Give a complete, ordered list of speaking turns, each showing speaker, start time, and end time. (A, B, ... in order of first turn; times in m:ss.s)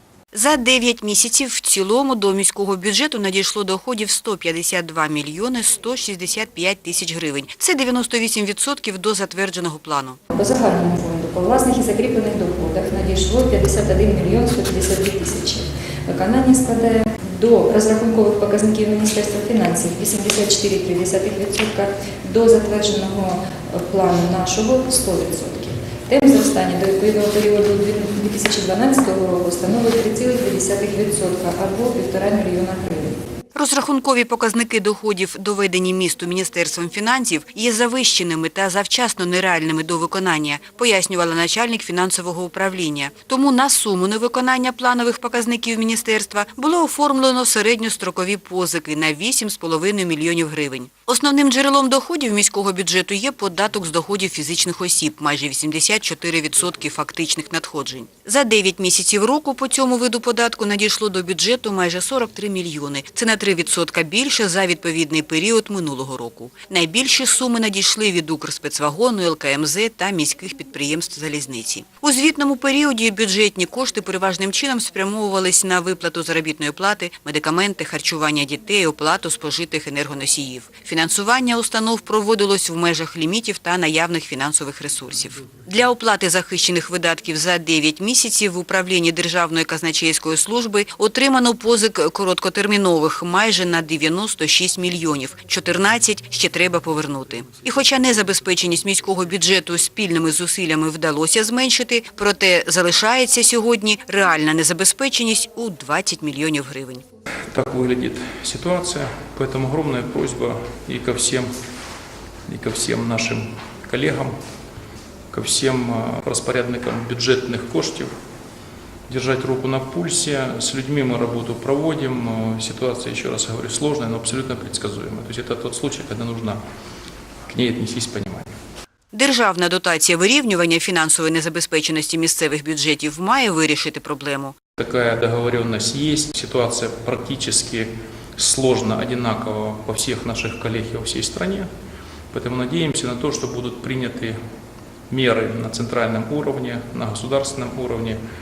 0:00.3-0:10.2 A
0:10.3-0:33.2 B
0:33.5-1:47.0 A
1:47.5-1:51.5 C
1:52.5-1:54.3 C
1:55.3-1:58.1 C
1:59.1-2:06.6 C
2:07.5-2:08.5 C
2:09.1-2:14.5 A
2:14.8-2:21.7 C
2:22.3-2:24.3 C
2:25.1-2:28.2 C